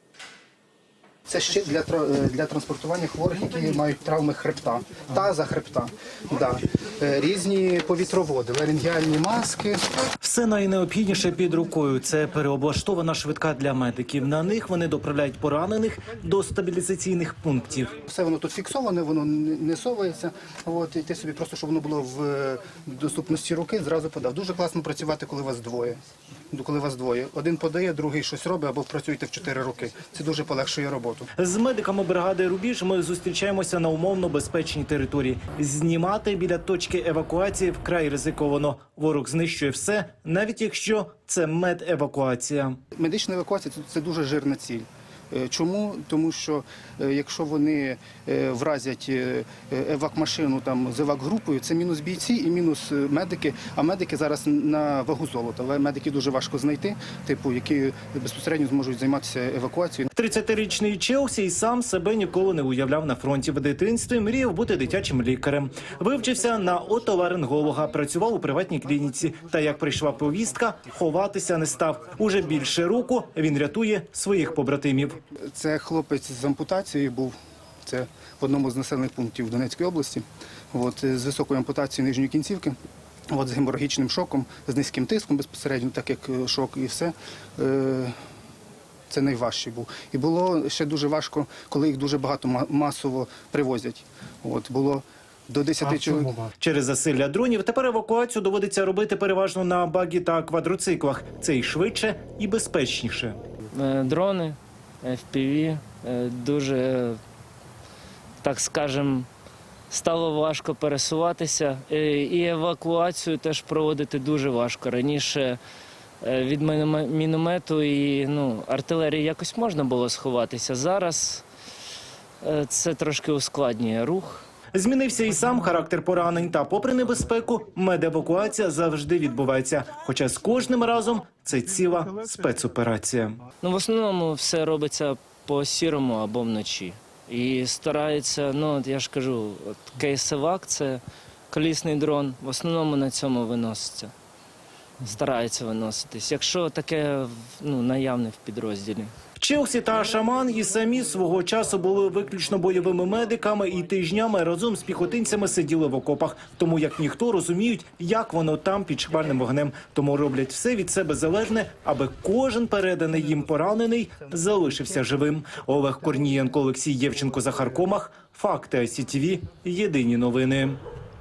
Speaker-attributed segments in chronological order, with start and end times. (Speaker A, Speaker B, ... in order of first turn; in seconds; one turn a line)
Speaker A: 1.3-9.8
Speaker B: 10.2-18.0
Speaker A: 18.1-26.0
Speaker A: 26.5-31.3
Speaker B: 31.4-42.8
Speaker A: 43.0-60.1
Speaker B: 60.1-75.2
Speaker A: 75.5-77.3
Speaker A: 77.9-82.8
Speaker A: 83.3-88.1
Speaker A: 89.1-96.3
Speaker B: 95.8-103.4
Speaker C: 103.7-107.2
Speaker C: 108.4-109.3
Speaker C: 109.9-115.6
Speaker C: 116.2-121.4
Speaker C: 122.4-124.4
Speaker B: 124.7-133.4
Speaker C: 133.6-144.1
Speaker C: 145.0-149.1
Speaker B: 149.4-170.8